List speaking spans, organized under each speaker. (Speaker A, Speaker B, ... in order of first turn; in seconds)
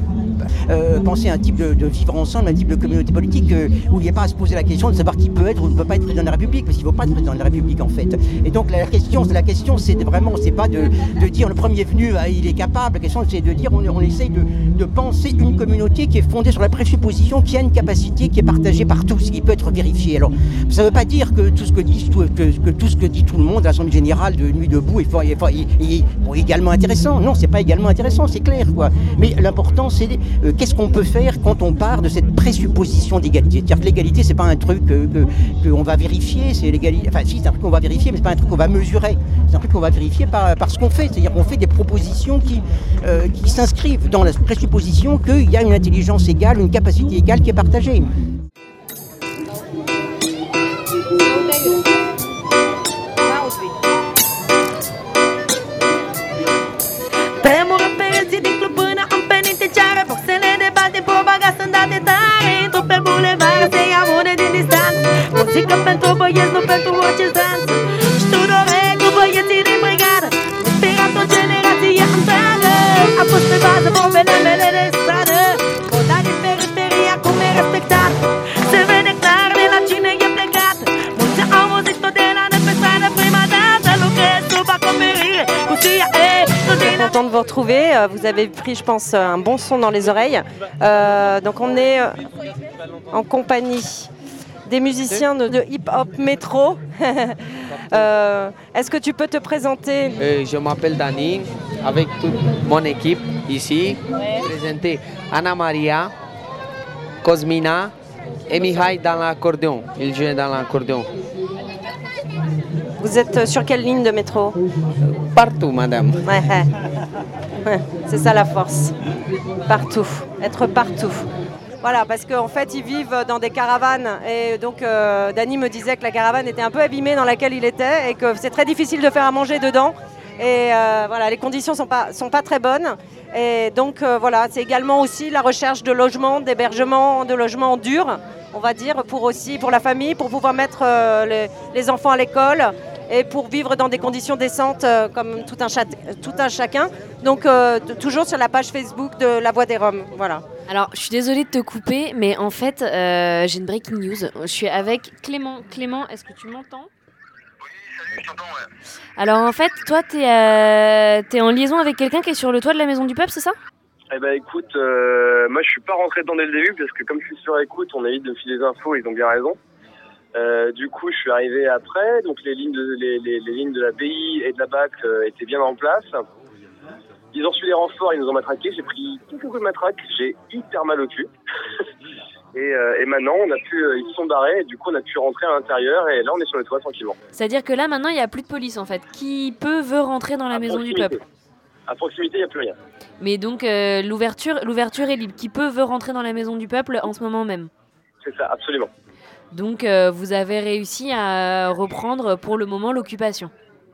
Speaker A: 0.4-48.1
Speaker B: 57.4-87.1
Speaker C: 86.7-92.3, 93.1-94.1, 94.7-97.4, 97.9-100.2, 113.0-114.6, 116.2-116.7, 117.7-118.9, 119.7-121.3, 121.8-150.4
Speaker D: 100.2-106.1, 107.2-107.9, 108.5-111.1, 115.3-116.2
Speaker E: 150.7-156.9, 159.2-163.6, 187.3-191.2, 193.2-197.7, 199.5-203.5
Speaker F: 164.1-169.6, 170.3-176.2, 177.3-181.3, 182.6-187.2, 190.5-191.2, 191.9-192.8, 198.2-198.9